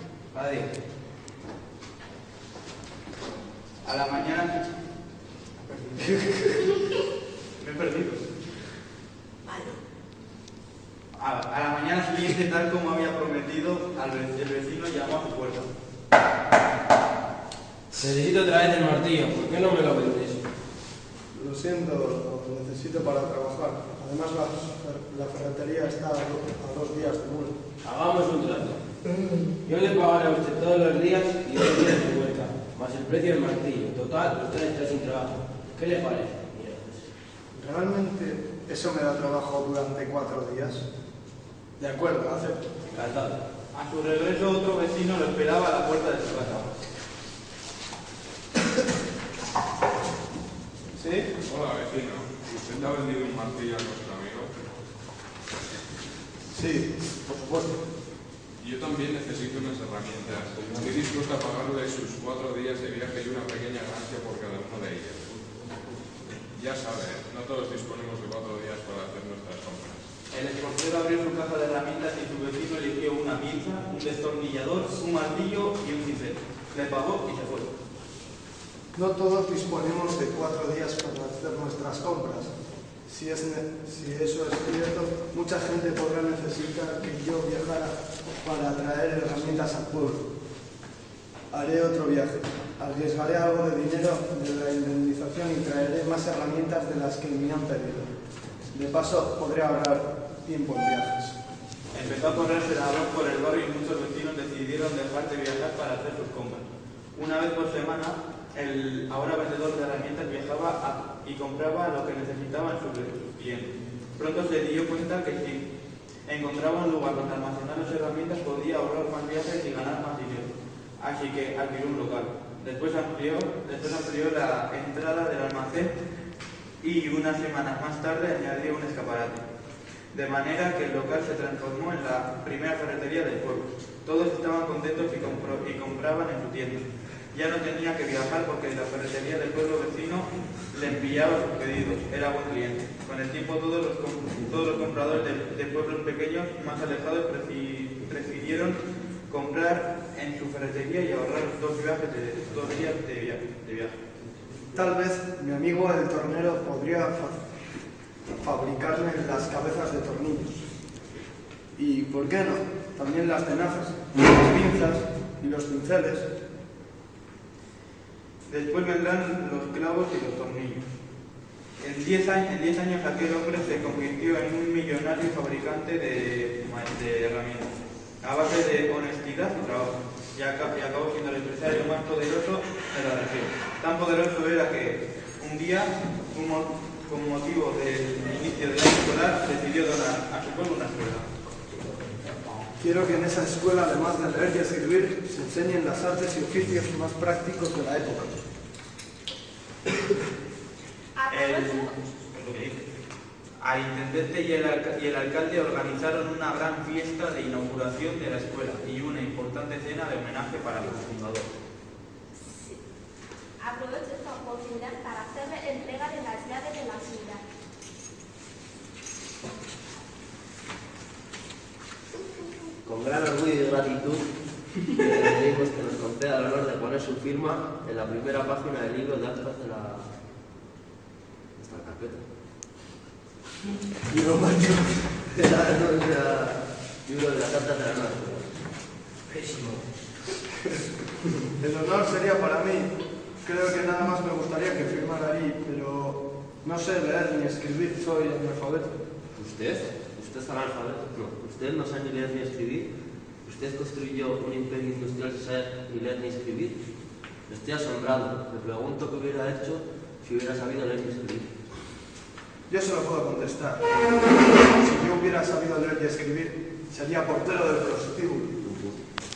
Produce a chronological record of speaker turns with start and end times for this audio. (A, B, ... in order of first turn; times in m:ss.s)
0:00.4-0:00.7 A
0:03.8-0:04.6 B
0:05.6-0:06.2 B
0:06.1-0:06.6 C
0:07.6-0:08.2 B
0:11.1-0:15.7 B
0:18.2-0:20.4 A
0:21.3-0:27.5 C
0:27.9-0:28.8 A
0:29.7-0:35.3 A
0:35.8-0:36.9 A
0:37.5-0:40.9 C
0:41.8-0:42.6 C
0:43.0-0:46.7 B
0:51.0-0:51.3 C
0:51.4-0:54.5 D
0:56.5-0:57.8 C
0:58.6-1:05.7 D
1:06.5-1:10.0 D
1:10.3-1:17.7 B
1:18.9-1:22.5 C
1:23.0-1:30.2 C
1:31.5-1:38.1 C
1:38.7-1:41.4 C
1:41.9-1:55.6 B
1:56.3-2:05.9 B
2:06.8-2:09.4 B
2:10.1-2:34.0 B
2:34.7-2:37.4 C
2:38.4-2:40.5 C
2:41.8-2:46.3 C
2:48.5-2:50.8 B
2:51.8-3:11.3 B
3:12.8-3:18.3 C
3:21.2-3:21.9 E
3:21.3-3:22.8 B
3:23.6-3:31.5 B
3:32.4-3:32.8 E
3:33.6-3:37.4 E
3:42.8-3:44.2 F
3:45.0-3:50.1 F
3:51.6-3:52.2 F
3:54.1-3:55.3 C
3:55.3-3:58.5 F
4:01.6-4:02.9 C
4:03.4-4:08.9 C
4:09.4-4:16.8 F
4:17.4-4:21.5 F
4:22.7-4:28.6 C
4:28.6-4:29.0 F